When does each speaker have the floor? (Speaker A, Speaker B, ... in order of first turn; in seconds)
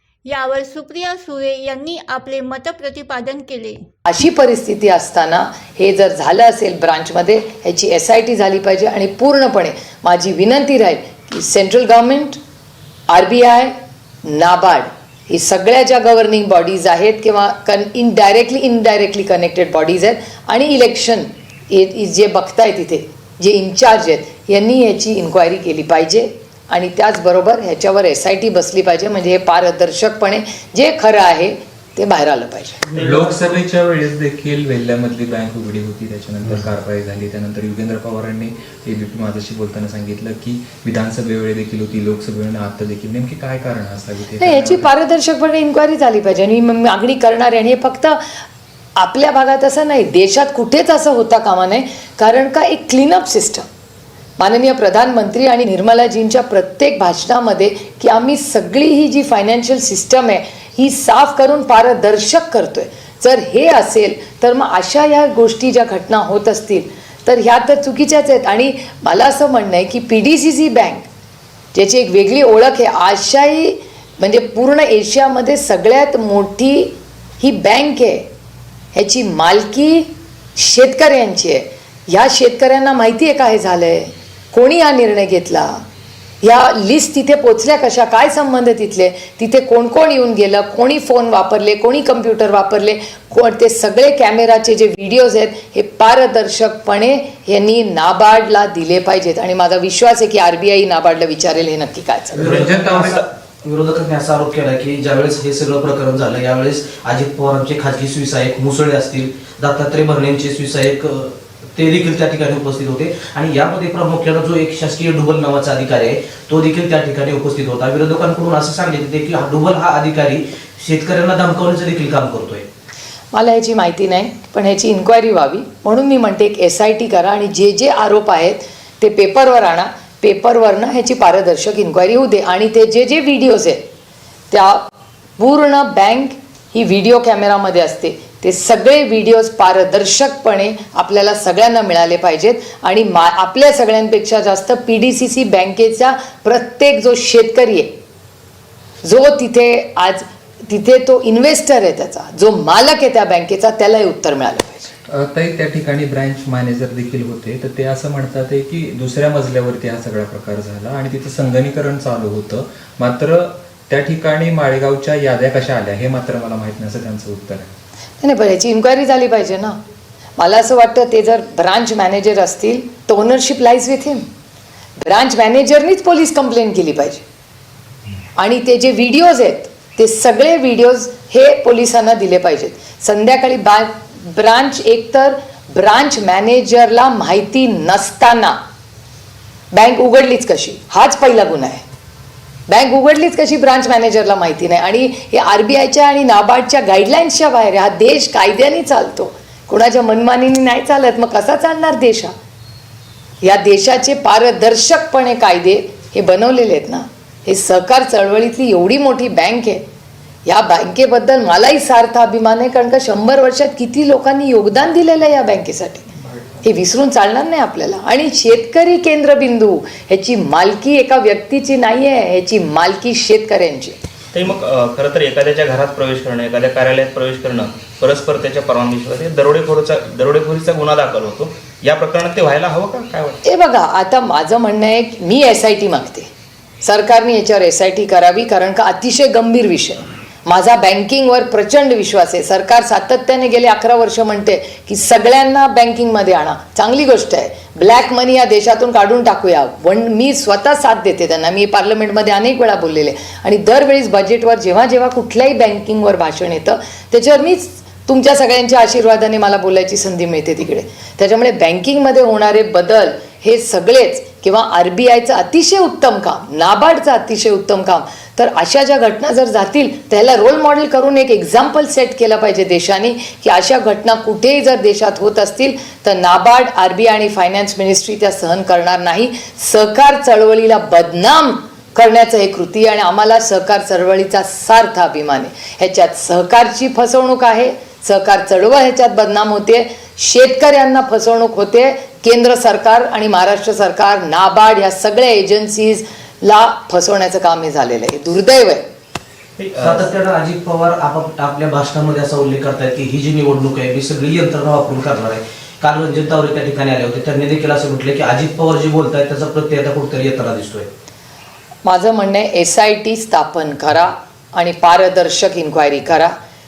Speaker A: 0.3-3.8
Speaker B: 4.1-12.4, 13.1-13.7, 14.2-32.9, 44.4-48.2, 49.0-53.6, 54.4-71.1, 71.7-78.2, 78.9-85.7, 86.4-102.5, 123.3-133.8, 134.5-134.9, 135.4-147.9, 149.0-154.9, 168.2-169.8, 170.4-174.2, 175.0-177.2, 178.4-188.6, 189.7-191.8, 192.7-202.3, 203.4-209.8, 210.5-216.1, 216.6-224.0, 233.5-236.3, 236.8-298.8, 311.9-316.3
Speaker C: 32.9-33.4, 224.3-233.4, 299.6-300.1
Speaker D: 33.0-44.9, 102.4-103.2, 155.1-167.7
Speaker E: 102.3-122.7, 299.8-310.9